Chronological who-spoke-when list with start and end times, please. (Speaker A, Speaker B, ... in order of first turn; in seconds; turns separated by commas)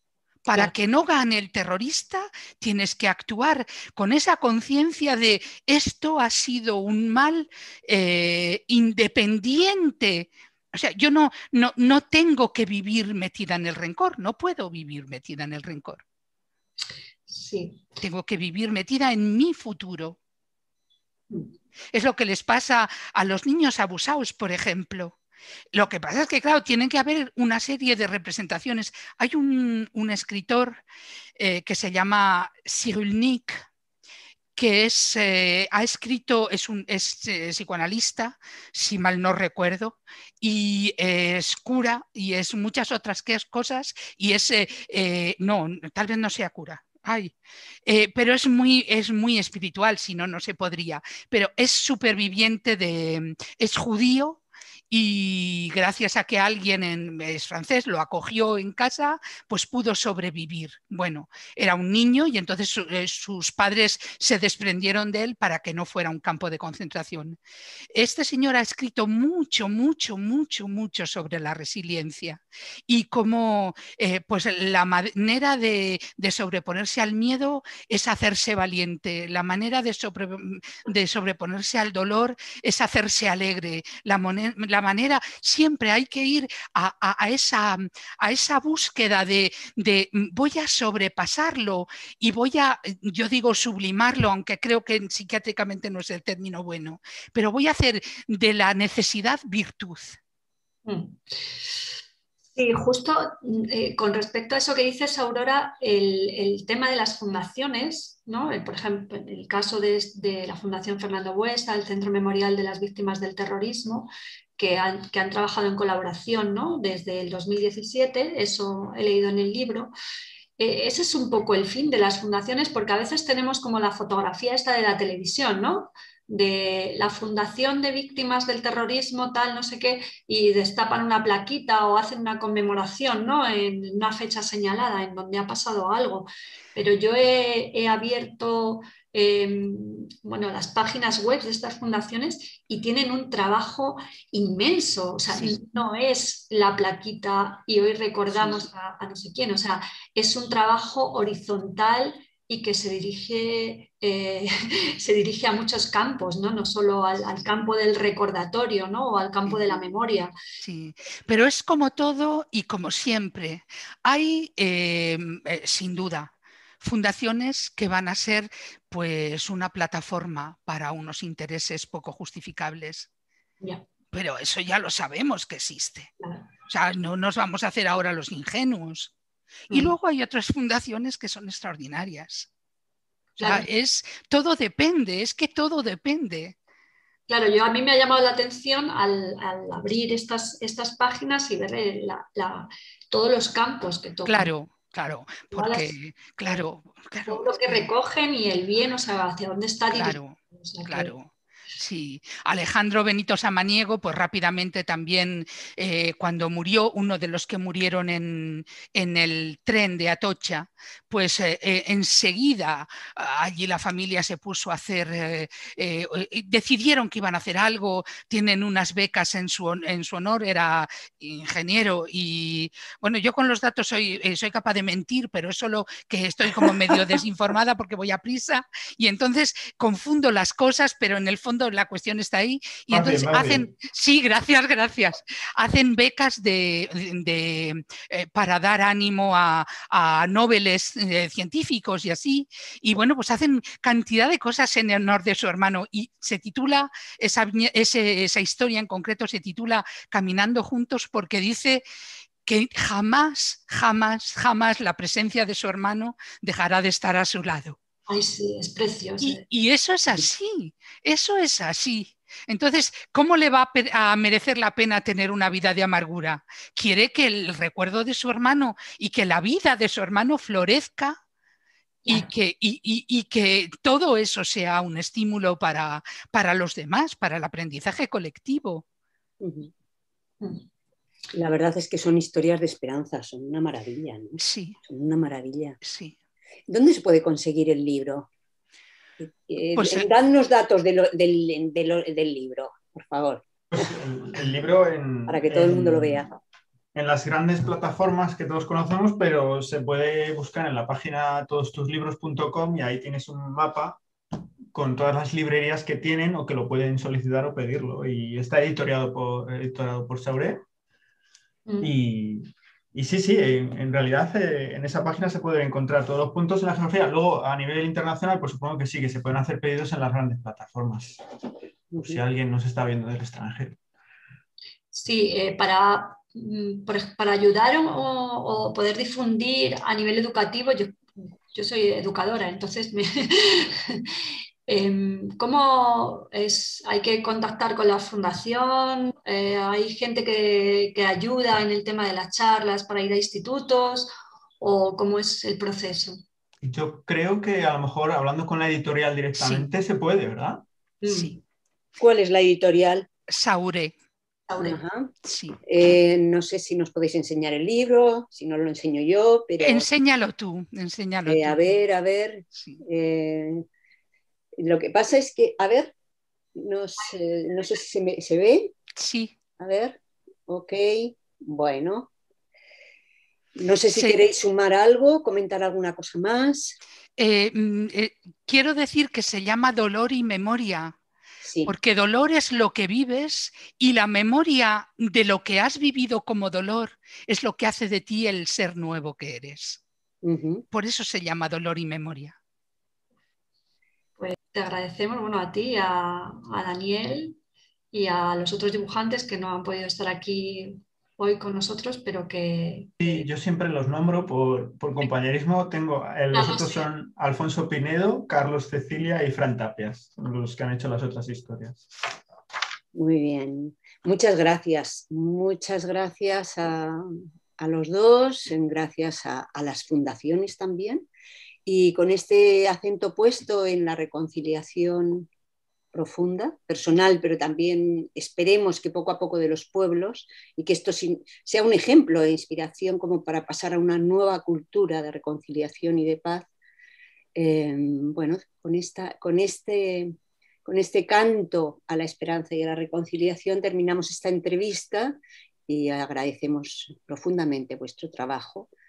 Speaker A: 0.5-16.0, Speaker B: 17.3-17.8, Speaker A: 18.0-20.2, Speaker A: 21.9-25.2, Speaker A: 25.7-30.8, Speaker A: 31.4-33.6, Speaker A: 34.6-47.4, Speaker A: 47.9-67.4, Speaker A: 67.9-100.2, Speaker B: 100.9-101.2, Speaker B: 102.5-119.9, Speaker B: 120.6-160.3, Speaker A: 160.6-173.1, Speaker A: 174.1-176.1, Speaker B: 176.2-176.5, Speaker A: 176.7-179.1, Speaker A: 179.7-182.5, Speaker A: 183.4-186.6, Speaker B: 183.4-183.7, Speaker B: 187.3-194.5, Speaker A: 194.3-197.9, Speaker B: 195.5-195.9, Speaker B: 197.3-201.2, Speaker A: 199.9-251.8, Speaker C: 232.9-233.7, Speaker A: 252.5-257.8, Speaker B: 258.1-259.4, Speaker A: 259.2-271.2, Speaker A: 272.1-278.9, Speaker D: 279.4-279.7, Speaker D: 281.3-285.8, Speaker A: 284.4-284.8, Speaker A: 285.8-286.1, Speaker D: 286.7-288.3, Speaker D: 289.2-293.9, Speaker A: 289.8-290.1, Speaker C: 293.7-296.3, Speaker D: 295.3-296.3, Speaker C: 296.9-304.0, Speaker C: 304.7-310.6, Speaker C: 311.8-321.2, Speaker D: 321.9-322.2, Speaker C: 322.1-323.8, Speaker B: 324.9-331.0, Speaker B: 331.5-334.0, Speaker B: 334.7-346.2, Speaker C: 346.6-350.6, Speaker A: 349.3-349.7, Speaker B: 351.0-351.4, Speaker A: 351.1-351.4, Speaker D: 352.0-353.1, Speaker A: 353.3-353.9, Speaker B: 354.5-354.8, Speaker D: 354.6-355.1, Speaker A: 355.2-355.6, Speaker D: 355.6-359.9, Speaker A: 359.6-361.6, Speaker D: 361.3-363.6, Speaker A: 362.6-362.8, Speaker D: 364.6-365.9, Speaker D: 366.6-368.7, Speaker A: 369.0-369.3, Speaker D: 369.6-372.1, Speaker D: 373.6-376.8, Speaker A: 377.2-381.0, Speaker D: 381.4-381.7, Speaker A: 381.6-389.8, Speaker D: 390.2-390.6, Speaker A: 390.7-392.4, Speaker B: 394.2-397.4, Speaker B: 397.9-403.2, Speaker C: 403.0-411.9, Speaker B: 406.3-406.9, Speaker D: 412.9-417.1, Speaker D: 417.6-421.1, Speaker D: 421.7-425.3, Speaker D: 425.9-436.5, Speaker D: 437.4-440.1, Speaker D: 440.6-448.7